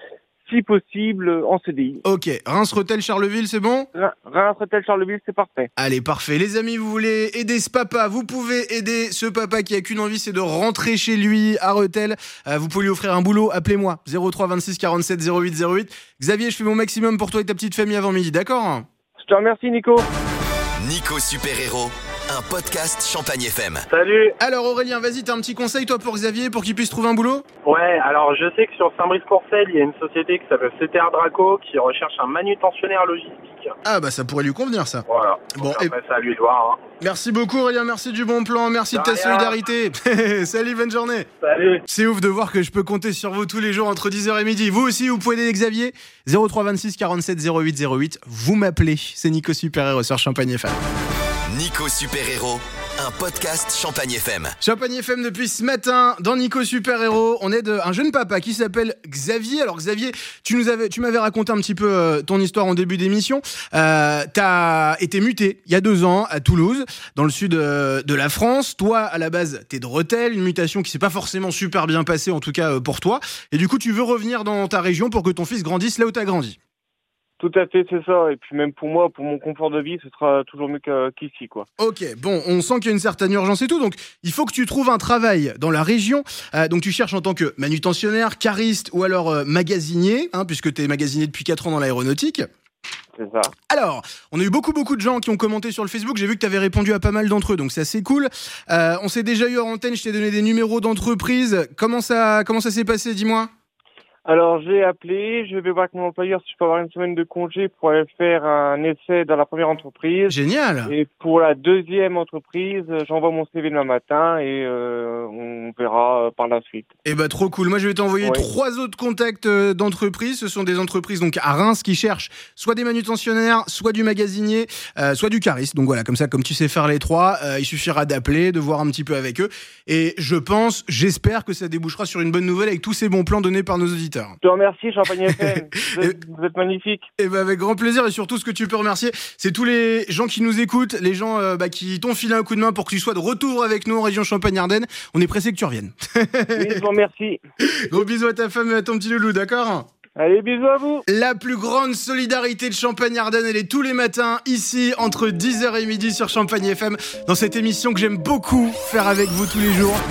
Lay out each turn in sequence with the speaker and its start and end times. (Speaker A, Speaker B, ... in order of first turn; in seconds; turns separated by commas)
Speaker A: 0.4-2.0, Speaker B: 2.0-3.9, Speaker A: 4.0-5.7, Speaker B: 5.8-18.9, Speaker A: 19.2-20.1, Speaker C: 20.8-23.9, Speaker D: 23.9-24.4, Speaker B: 24.4-27.4, Speaker D: 27.6-33.7, Speaker B: 33.9-35.0, Speaker D: 35.1-36.9, Speaker B: 35.6-35.9, Speaker B: 37.0-41.3, Speaker D: 38.9-39.6, Speaker D: 41.4-41.8, Speaker B: 41.9-50.8, Speaker C: 51.5-54.5, Speaker B: 54.6-76.6, Speaker A: 77.4-81.7, Speaker B: 81.8-92.5, Speaker A: 93.2-93.5, Speaker B: 93.7-103.5, Speaker A: 104.2-116.9, Speaker B: 110.3-110.9, Speaker B: 117.0-134.4, Speaker A: 118.2-118.5, Speaker A: 134.4-137.1, Speaker B: 135.3-136.2, Speaker B: 137.2-146.8, Speaker A: 146.6-147.4, Speaker B: 147.6-149.9, Speaker A: 150.2-151.1, Speaker B: 151.1-160.0